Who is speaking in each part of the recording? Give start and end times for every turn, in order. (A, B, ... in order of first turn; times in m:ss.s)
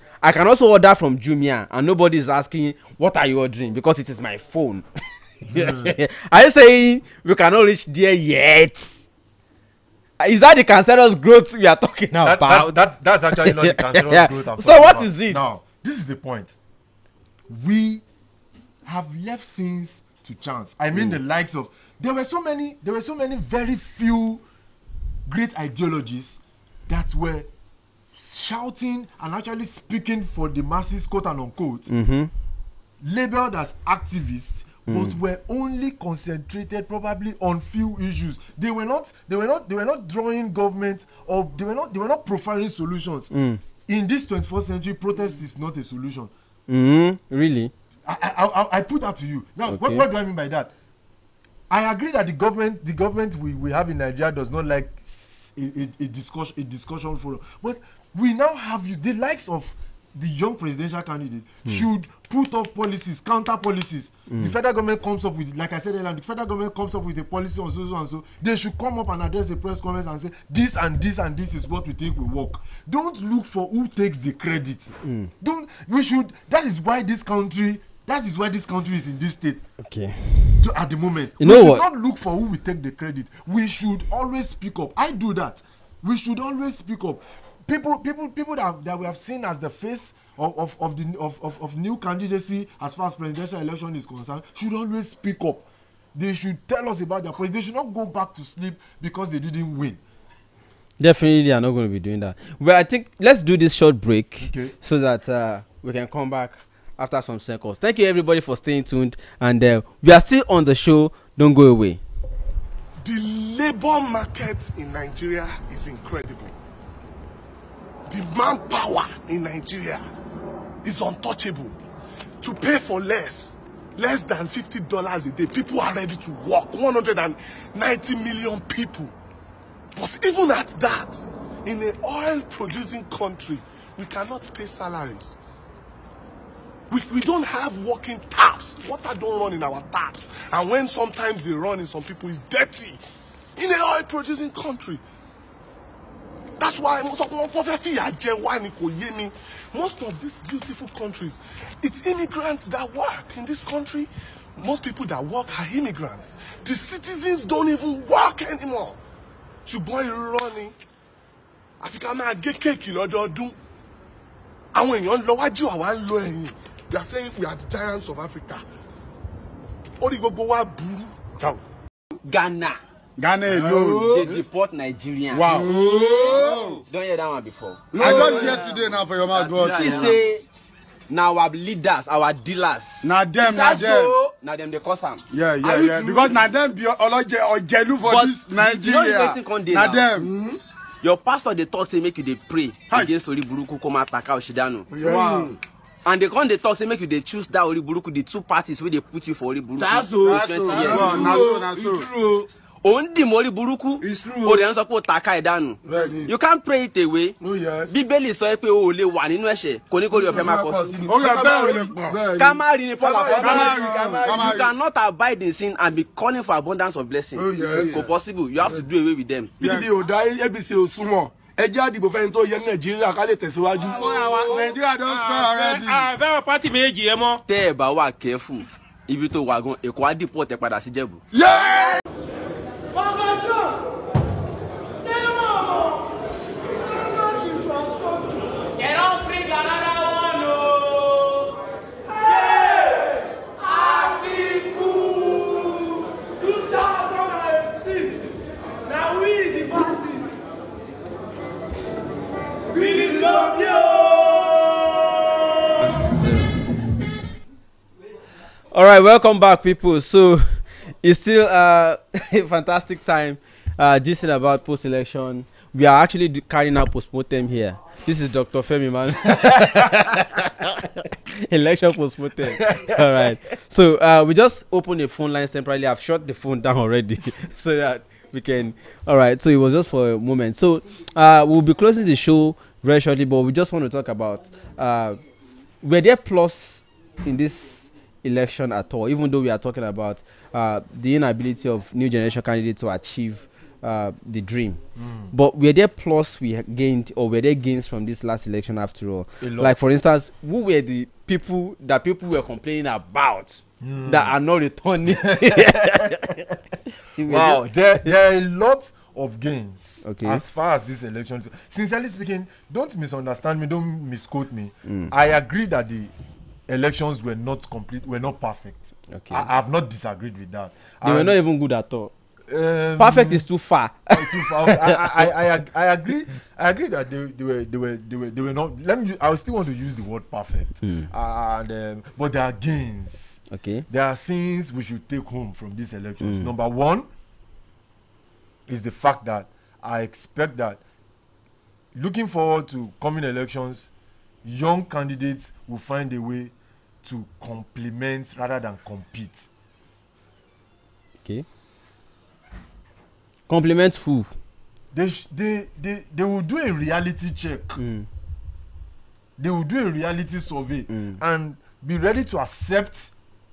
0:00.2-0:04.8 A
0:05.4-0:09.0 A
0:05.5-0:06.0 B
0:10.2-0:12.8 A
0:12.2-0:16.6 B
0:13.3-0:15.4 A
0:17.5-0:18.0 B
0:18.8-0:24.4 B
0:25.3-0:27.5 B
0:28.2-0:31.9 B
0:31.9-0:32.3 A
0:33.0-0:43.3 B
0:34.9-0:35.2 A
0:43.3-0:43.6 A
0:43.9-0:46.3 B
0:46.7-0:47.7 A
0:48.0-0:50.7 B
0:49.7-0:50.0 A
0:51.7-1:19.6 B
1:04.3-1:04.5 A
1:15.0-1:15.3 A
1:19.8-1:20.6 A
1:20.6-1:40.0 B
1:21.4-1:21.8 A
1:41.0-1:52.0 A
1:44.4-1:44.7 B
1:53.0-1:56.5 C
1:58.1-2:00.0 C
2:00.8-2:01.8 C
2:02.4-2:09.1 C
2:10.0-2:15.4 C
2:16.9-2:23.0 C
2:23.6-2:25.0 C
2:26.6-2:39.0 C
2:39.7-2:40.8 C
2:41.8-2:43.6 C
2:44.7-2:48.6 C
2:50.0-2:51.6 C
2:52.2-2:52.8 A
2:53.2-2:54.4 D
2:53.6-2:53.9 B
2:54.0-2:58.6 A
2:55.3-2:56.8 D
2:57.9-3:00.2 D
2:58.1-2:58.6 C
2:59.3-3:00.4 A
3:01.1-3:05.2 A
3:03.0-3:04.2 D
3:05.3-3:10.5 D
3:05.7-3:06.3 C
3:08.0-3:10.1 A
3:11.0-3:14.9 A
3:14.9-3:15.6 D
3:16.0-3:21.2 A
3:20.1-3:22.4 C
3:20.2-3:22.1 D
3:22.8-3:31.5 A
3:25.9-3:26.2 D
3:31.0-3:32.6 D
3:31.2-3:32.1 C
3:32.2-3:39.5 A
3:33.2-3:34.1 C
3:33.3-3:34.7 D
3:37.5-3:38.1 D
3:39.6-3:39.9 D
3:39.6-3:44.2 C
3:44.1-3:47.4 E
3:44.2-3:46.1 D
3:47.4-3:51.2 A
3:51.4-3:52.0 D
3:58.7-4:01.4 E
4:15.8-4:16.5 A
4:18.7-4:45.2 A
4:32.6-4:33.2 B
4:45.8-4:54.8 A
4:55.0-4:55.3 B
4:55.3-5:06.4 A
4:59.4-4:59.9 B
5:03.8-5:04.4 B
5:05.1-5:16.1 B
5:07.2-5:08.1 A
5:10.0-5:10.4 A
5:14.9-5:15.1 A
5:16.7-5:21.4 B
5:19.1-5:19.5 A
5:21.0-5:22.1 A
5:22.5-5:23.5 B
5:23.0-5:25.3 A
5:24.1-5:37.1 B
5:30.8-5:31.1 A
5:33.5-5:33.8 A
5:36.2-5:36.5 A
5:38.7-5:40.8 B
5:41.9-5:43.9 B
5:44.4-5:46.5 B
5:47.0-5:49.5 B
5:53.5-5:54.3 A
5:54.9-5:57.8 B
5:57.8-5:58.1 A
5:59.4-6:03.1 B
6:00.9-6:01.2 A